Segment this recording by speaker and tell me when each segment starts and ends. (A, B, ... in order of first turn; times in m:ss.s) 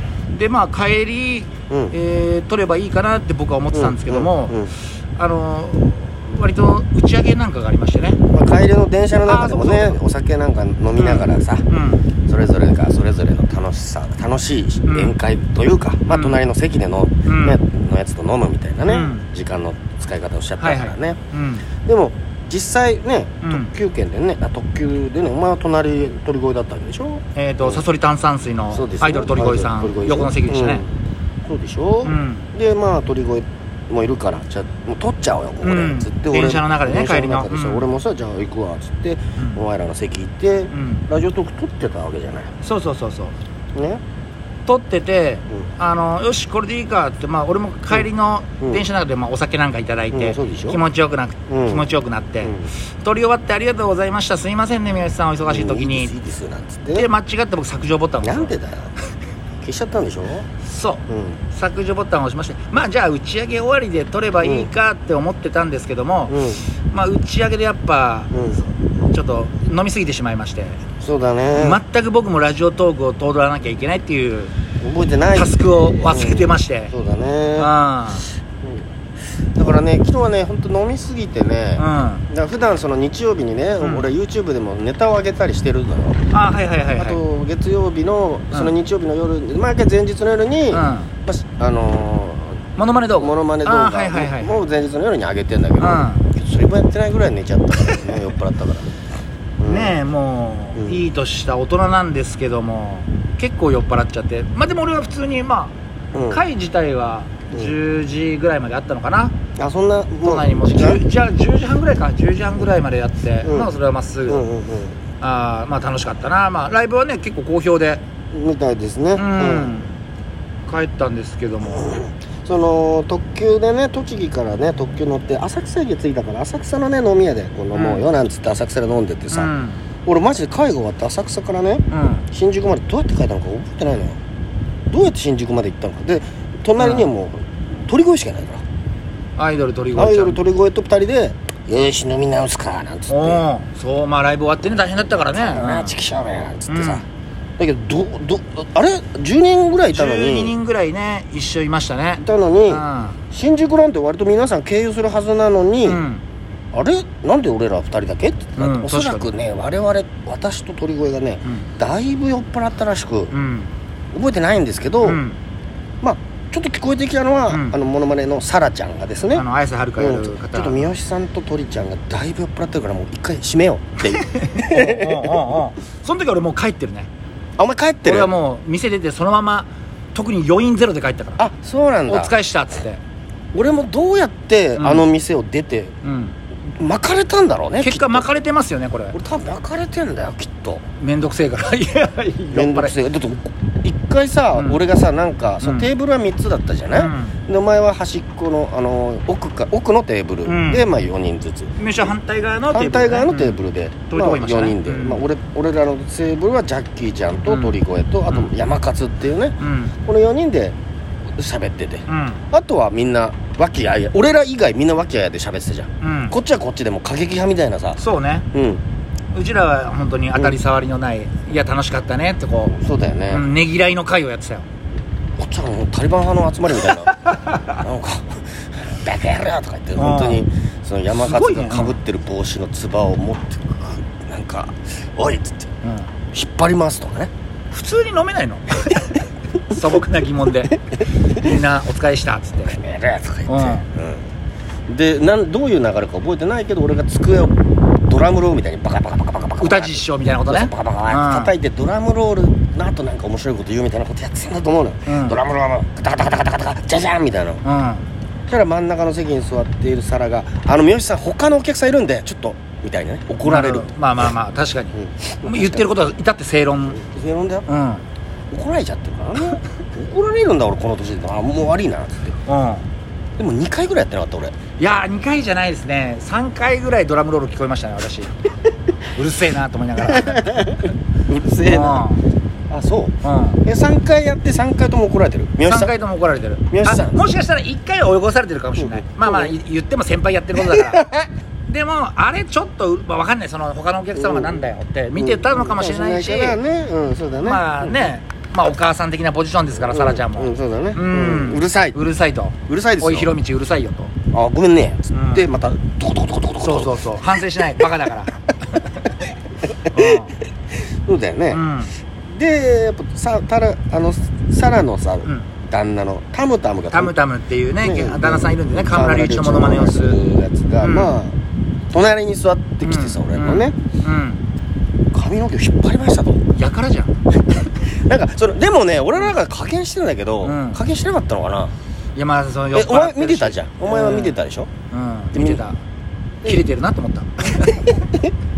0:00.3-0:08.2 A
0:01.7-0:01.9 B
0:03.7-0:04.7 B
0:08.3-0:11.7 B
0:09.3-0:10.0 A
0:11.0-0:12.1 A
0:12.2-0:21.2 B
0:14.8-0:15.2 A
0:16.1-0:16.4 A
0:17.2-0:17.6 A
0:18.9-0:19.3 A
0:20.6-0:21.7 A
0:21.8-0:27.8 B
0:23.4-0:23.7 A
0:27.3-0:30.8 A
0:28.7-0:30.9 B
0:31.4-0:42.5 B
0:32.0-0:32.4 A
0:35.6-0:37.9 A
0:39.4-0:39.6 A
0:40.7-0:41.1 A
0:42.6-0:43.4 A
0:43.7-0:44.0 B
0:44.6-0:56.1 A
0:50.1-0:50.8 B
0:51.5-0:51.9 B
0:52.4-0:52.7 B
0:55.4-0:57.1 B
0:56.9-0:58.5 A
0:58.2-0:58.9 B
0:59.6-1:00.5 B
1:00.6-1:10.8 A
1:01.1-1:01.4 B
1:04.4-1:04.7 B
1:06.3-1:06.6 B
1:08.3-1:08.6 B
1:11.0-1:11.8 B
1:11.5-1:14.5 A
1:14.8-1:17.7 B
1:15.3-1:16.9 A
1:17.6-1:18.3 A
1:19.5-1:26.2 B
1:21.8-1:22.2 A
1:23.8-1:24.1 A
1:26.3-1:27.2 A
1:27.0-1:32.7 B
1:30.7-1:31.1 A
1:32.8-1:34.6 A
1:33.2-1:38.9 B
1:35.8-1:36.3 A
1:39.6-1:40.0 B
1:39.6-1:45.7 A
1:46.1-1:46.4 B
1:46.3-1:49.4 A
1:49.6-1:51.0 B
1:50.2-1:54.4 A
1:53.4-1:53.7 B
1:54.3-1:55.0 B
1:55.2-1:58.0 A
1:58.3-1:59.8 B
1:59.2-2:00.0 A
2:00.6-2:02.0 A
2:01.7-2:09.5 B
2:07.7-2:08.1 A
2:09.3-2:09.8 A
2:10.0-2:14.2 B
2:11.9-2:12.2 A
2:14.9-2:18.6 B
2:16.8-2:17.1 A
2:19.4-2:20.4 A
2:19.9-2:23.4 B
2:23.1-2:25.9 A
2:25.3-2:27.0 B
2:26.7-2:27.0 A
2:27.6-2:30.6 B
2:29.9-2:33.2 A
2:32.2-2:36.0 B
2:35.8-2:36.2 A
2:36.7-2:43.3 B
2:38.6-2:39.3 A
2:41.4-2:41.7 A
2:43.3-2:43.7 A
2:44.1-2:45.2 B
2:45.0-2:45.4 A
2:46.0-2:49.4 B
2:47.5-2:47.8 A
2:49.3-2:50.9 A
2:50.0-2:55.5 B
2:54.2-2:57.1 A
2:57.6-2:58.3 B
2:58.0-3:01.4 A
3:01.4-3:02.3 B
3:02.1-3:03.0 A
3:03.5-3:06.0 B
3:04.8-3:05.0 A
3:06.0-3:06.4 A
3:06.7-3:08.2 B
3:07.8-3:09.2 A
3:09.1-3:10.8 B
3:11.0-3:13.0 A
3:12.5-3:21.8 B
3:14.5-3:14.8 A
3:15.6-3:15.9 A
3:16.9-3:17.4 A
3:20.4-3:20.8 A
3:21.8-3:25.2 A
3:22.7-3:30.8 B
3:27.5-3:27.8 A
3:29.6-3:29.9 A
3:31.4-3:38.0 B
3:32.1-3:32.4 A
3:36.0-3:36.4 A
3:38.0-3:38.5 A
3:38.5-3:38.8 B
3:39.3-3:42.8 A
3:42.7-3:43.5 B
3:43.3-3:44.6 A
3:45.4-3:55.7 B
3:47.1-3:47.7 A
3:50.0-3:50.4 A
3:51.1-3:52.0 A
3:55.8-3:56.1 A
3:56.3-3:57.3 B
3:57.7-4:02.8 A
4:02.6-4:04.3 B
4:03.5-4:03.8 A
4:04.9-4:17.6 B
4:09.6-4:11.5 A
4:15.1-4:15.4 A
4:17.6-4:18.0 A
4:18.5-4:23.9 B
4:23.4-4:27.0 A
4:24.9-4:25.9 B
4:26.9-4:27.7 B
4:27.7-4:28.0 A
4:28.5-4:32.4 B
4:32.4-4:32.9 A
4:33.4-4:34.5 B
4:34.8-4:38.3 A
4:39.1-4:40.8 A
4:40.0-4:42.1 B
4:41.6-4:42.2 A
4:42.7-4:45.9 B
4:43.2-4:43.6 A
4:45.6-4:51.0 A
4:46.7-4:47.2 B
4:48.8-4:49.6 B
4:50.5-4:51.3 B
4:51.6-4:56.6 A
4:54.1-4:58.1 B
4:57.4-5:04.1 A
4:59.7-5:02.0 B
5:02.7-5:03.3 B
5:04.3-5:07.2 B
5:05.1-5:05.5 A
5:06.6-5:09.1 A
5:09.8-5:10.3 B
5:09.9-5:10.4 A
5:11.0-5:11.6 B
5:11.5-5:11.9 A
5:12.2-5:17.1 B
5:16.9-5:20.2 A
5:17.8-5:21.4 B
5:20.8-5:21.2 A
5:21.9-5:23.8 B
5:22.8-5:24.4 A
5:25.1-5:26.4 B
5:26.5-5:27.2 A
5:27.6-5:31.7 B
5:30.4-5:30.8 A
5:32.1-5:34.4 A
5:32.7-5:34.7 B
5:34.9-5:35.8 A
5:35.3-5:35.6 B
5:36.4-5:37.8 A
5:37.6-5:38.3 B